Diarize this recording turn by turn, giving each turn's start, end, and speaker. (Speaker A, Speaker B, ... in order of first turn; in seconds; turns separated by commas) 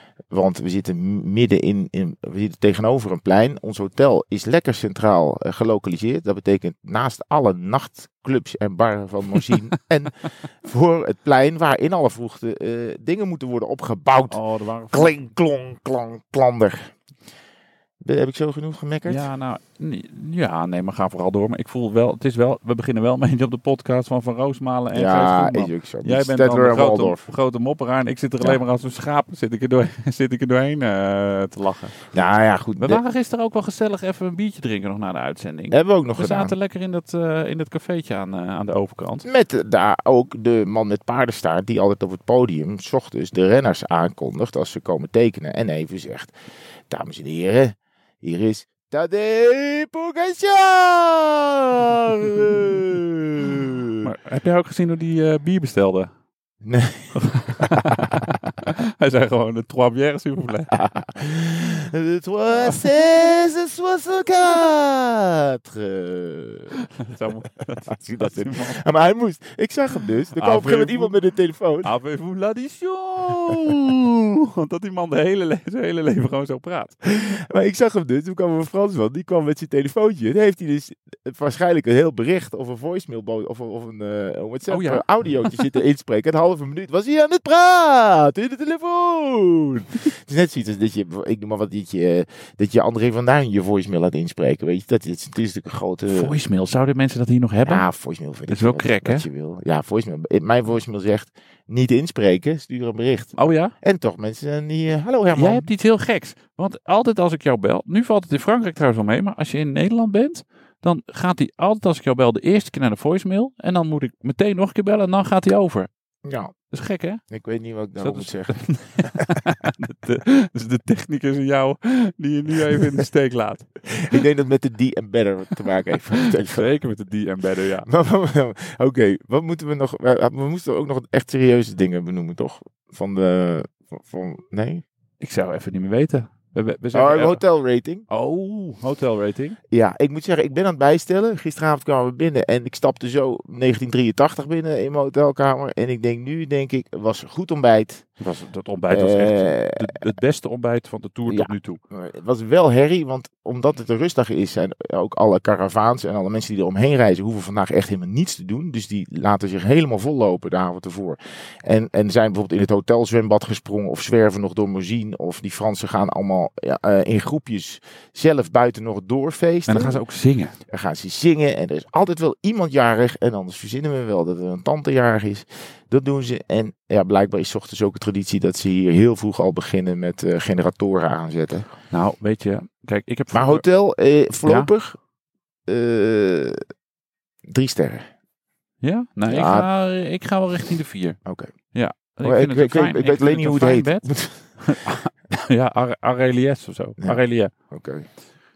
Speaker A: 0.3-16.9, Speaker B: 14.3-15.1, Speaker A: 18.0-19.3, Speaker B: 19.1-32.0, Speaker A: 24.9-27.3, Speaker A: 32.1-33.0, Speaker B: 32.8-39.2, Speaker A: 35.7-36.5, Speaker A: 39.2-46.3, Speaker A: 46.9-54.0, Speaker B: 54.0-56.1, Speaker A: 56.6-57.8, Speaker B: 57.1-60.8, Speaker A: 60.7-66.8, Speaker B: 67.0-68.7, Speaker A: 67.9-71.9, Speaker B: 70.3-71.2, Speaker B: 71.8-77.0, Speaker A: 77.0-96.3, Speaker B: 84.7-85.6, Speaker B: 96.1-97.9, Speaker A: 97.7-105.7, Speaker B: 98.5-99.2, Speaker B: 103.3-103.7, Speaker B: 105.3-115.9, Speaker A: 116.2-116.7, Speaker B: 116.7-124.1, Speaker A: 117.3-119.3, Speaker A: 123.9-126.8, Speaker B: 126.4-127.9, Speaker A: 127.8-134.8, Speaker B: 135.2-137.4, Speaker A: 136.9-138.1, Speaker B: 138.1-139.6, Speaker A: 139.7-148.1, Speaker B: 148.2-151.8, Speaker A: 148.9-149.9, Speaker A: 151.3-170.0, Speaker B: 169.7-170.6, Speaker A: 170.7-181.7, Speaker B: 181.9-183.9, Speaker A: 183.3-185.0, Speaker B: 184.4-184.7, Speaker A: 185.6-186.6, Speaker A: 187.5-188.0, Speaker B: 188.8-197.5, Speaker A: 189.3-189.7, Speaker A: 191.2-194.7, Speaker A: 197.0-198.2